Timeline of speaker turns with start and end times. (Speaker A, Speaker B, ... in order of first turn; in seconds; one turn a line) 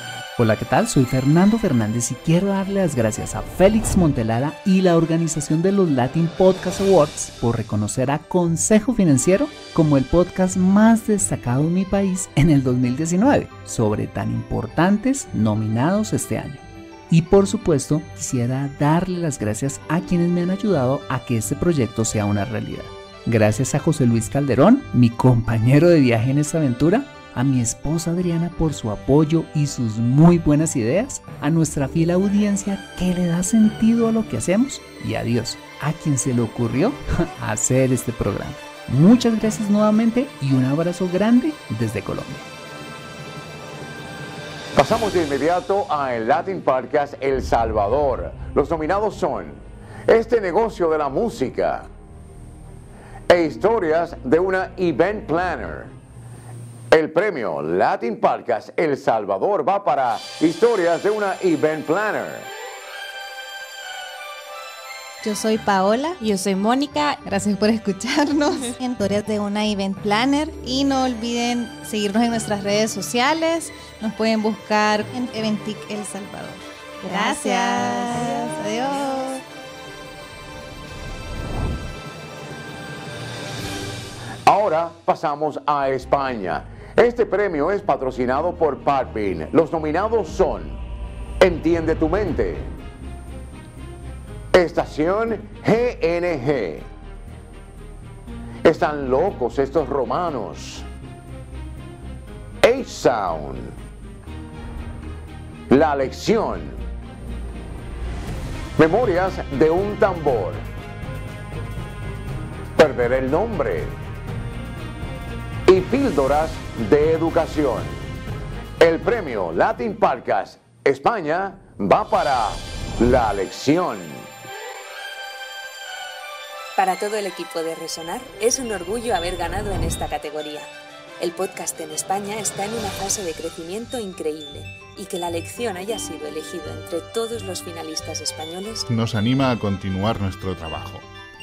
Speaker A: 0.4-42.5
Speaker B: 44.8-51.9
Speaker B: 53.3-55.9
Speaker B: 56.9-62.5
Speaker C: 65.2-79.4
Speaker B: 84.5-90.8
Speaker B: 91.4-92.7
Speaker B: 94.5-96.9
Speaker B: 98.6-100.8
Speaker B: 102.6-103.8
Speaker B: 105.7-106.8
Speaker B: 108.8-110.7
Speaker B: 112.8-114.0
Speaker B: 115.7-118.0
Speaker B: 118.8-124.3
Speaker D: 126.8-138.9
Speaker E: 138.9-141.1